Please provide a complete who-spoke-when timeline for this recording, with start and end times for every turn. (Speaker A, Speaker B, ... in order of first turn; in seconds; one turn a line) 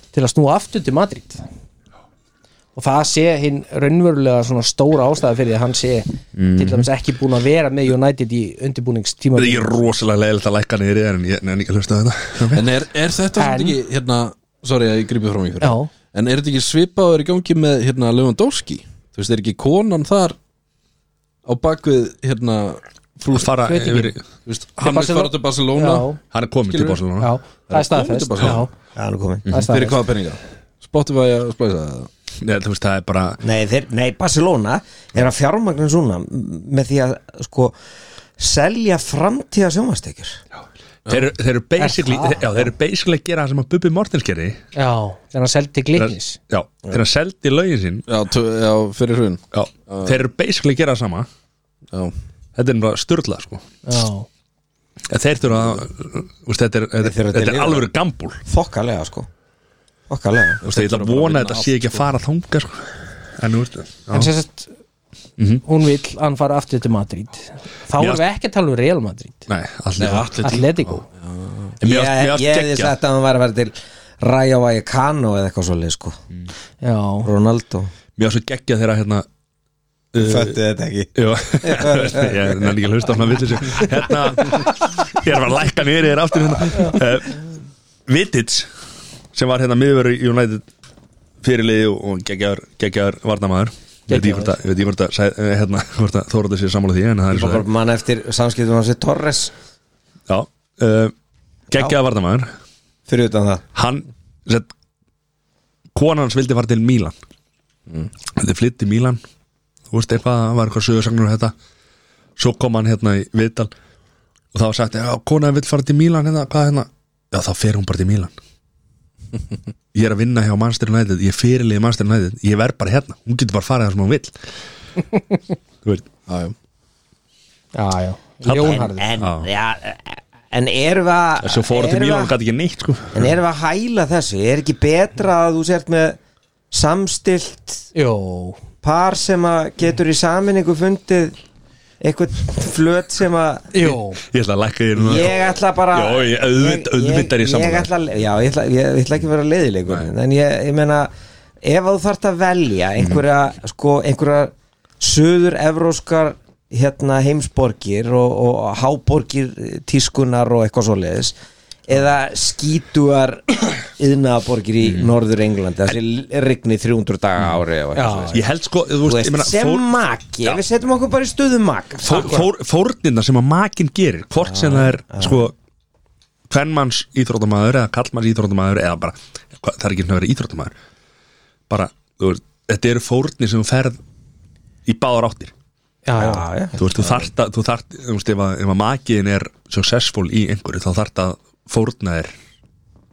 Speaker A: 0.1-1.4
Speaker A: 2.8-9.9
Speaker B: 6.4-6.9
Speaker B: 9.4-12.7
Speaker C: 12.5-20.4
Speaker A: 13.4-13.8
Speaker A: 15.6-15.9
Speaker C: 21.4-23.5
Speaker B: 23.3-24.2
Speaker A: 23.6-24.2
Speaker C: 24.4-26.1
Speaker A: 24.8-26.2
Speaker B: 26.3-27.4
Speaker C: 26.7-27.0
Speaker A: 27.2-28.7
Speaker C: 27.7-28.7
Speaker D: 29.0-29.5
Speaker A: 29.5-30.0
Speaker C: 29.5-32.1
Speaker B: 32.4-33.4
Speaker D: 33.4-37.8
Speaker D: 38.4-40.4
Speaker B: 41.1-44.6
Speaker A: 41.8-42.5
Speaker A: 44.8-46.4
Speaker B: 46.0-48.1
Speaker C: 48.1-50.2
Speaker B: 49.5-51.3
Speaker B: 52.6-53.6
Speaker A: 53.9-54.3
Speaker B: 55.1-58.4
Speaker D: 57.0-57.9
Speaker D: 58.5-59.3
Speaker D: 60.1-60.6
Speaker C: 60.6-62.1
Speaker B: 60.6-64.3
Speaker A: 64.1-64.7
Speaker B: 65.4-65.6
Speaker A: 65.7-69.5
Speaker B: 69.5-70.3
Speaker C: 70.0-71.8
Speaker A: 70.4-71.1
Speaker D: 71.8-76.2
Speaker B: 71.8-72.9
Speaker A: 76.8-77.3
Speaker D: 77.2-77.9
Speaker B: 78.2-79.2
Speaker B: 80.1-80.6
Speaker D: 80.2-81.1
Speaker B: 81.2-87.4
Speaker D: 81.6-82.7
Speaker B: 88.1-88.7
Speaker B: 89.3-90.6
Speaker B: 91.4-97.7
Speaker A: 94.1-94.5
Speaker D: 97.3-99.5
Speaker B: 100.3-101.1
Speaker B: 101.7-102.5
Speaker D: 103.1-103.6
Speaker B: 103.8-104.7
Speaker B: 105.9-107.2
Speaker B: 108.4-109.2
Speaker B: 109.9-111.5
Speaker B: 112.4-113.7
Speaker B: 114.5-118.3
Speaker B: 119.9-124.3
Speaker C: 126.3-126.5
Speaker A: 127.8-129.1
Speaker D: 128.5-132.3
Speaker B: 128.5-129.5
Speaker B: 131.4-133.3
Speaker D: 133.1-136.2
Speaker D: 136.7-137.8
Speaker A: 137.9-138.6
Speaker D: 138.8-141.3
Speaker D: 142.0-143.7
Speaker A: 143.7-144.2
Speaker B: 143.8-147.9
Speaker D: 145.0-151.1
Speaker D: 151.6-161.4
Speaker D: 161.9-168.4
Speaker A: 167.9-168.4
Speaker B: 168.3-169.8
Speaker D: 169.0-172.5
Speaker B: 172.0-175.5
Speaker A: 172.1-172.4
Speaker D: 174.5-175.5
Speaker B: 176.5-180.7
Speaker B: 181.7-184.0
Speaker B: 184.9-185.5
Speaker A: 186.1-186.4
Speaker D: 186.2-187.2
Speaker B: 186.8-192.3